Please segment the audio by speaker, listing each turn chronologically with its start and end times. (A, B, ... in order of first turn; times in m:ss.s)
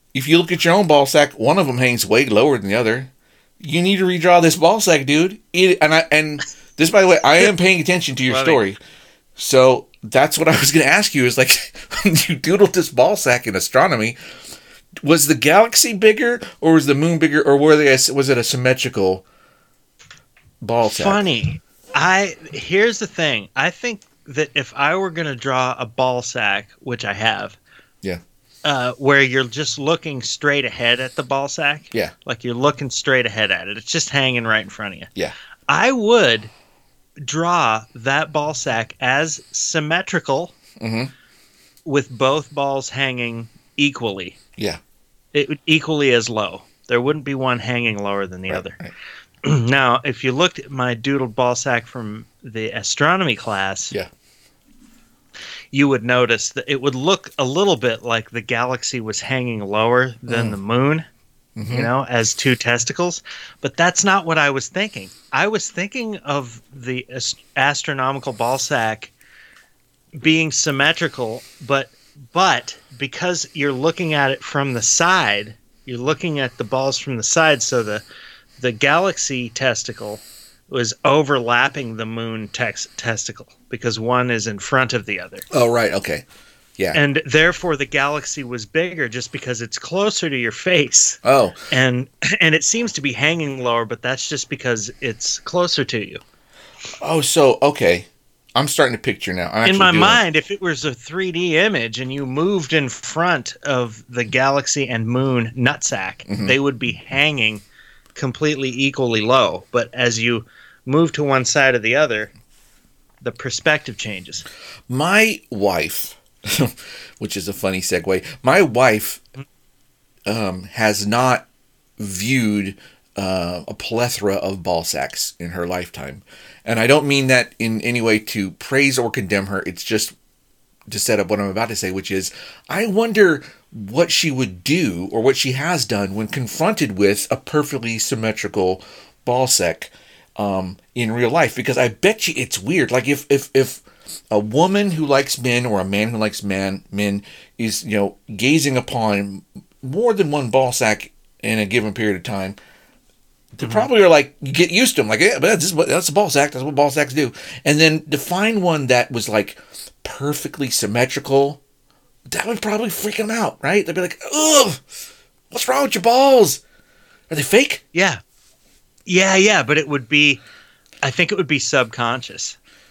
0:00.1-0:08.8 A
0:08.3-0:08.6 B
0:09.4-0:14.2 A
0:15.0-0:19.2 A
0:20.6-0:21.2 A
0:20.9-0:27.6 B
0:28.6-0:35.1 B
0:35.7-0:36.5 B
0:37.2-0:40.5 B
0:40.8-0:41.1 A
0:41.8-0:44.4 B
0:45.3-0:48.8 B
0:48.5-0:48.9 A
0:49.4-0:53.9 B
0:55.7-1:01.0 B
1:00.3-1:00.6 A
1:01.6-1:01.9 A
1:01.7-1:09.1 B
1:10.2-1:18.0 B
1:18.6-1:25.5 B
1:25.5-1:26.2 A
1:26.9-1:31.2 B
1:31.2-1:31.6 A
1:31.7-1:36.2 B
1:37.0-1:40.2 A
1:39.6-1:52.3 B
1:46.3-1:46.5 A
1:53.2-1:54.4 B
1:54.9-1:59.2 A
2:00.3-2:01.5 A
2:02.0-2:10.2 A
2:10.9-2:32.6 A
2:33.5-2:41.6 A
2:33.6-2:33.9 B
2:42.3-2:44.8 A
2:45.5-2:46.6 A
2:47.3-2:47.8 A
2:47.9-2:48.2 B
2:49.1-2:50.4 B
2:51.0-2:52.6 B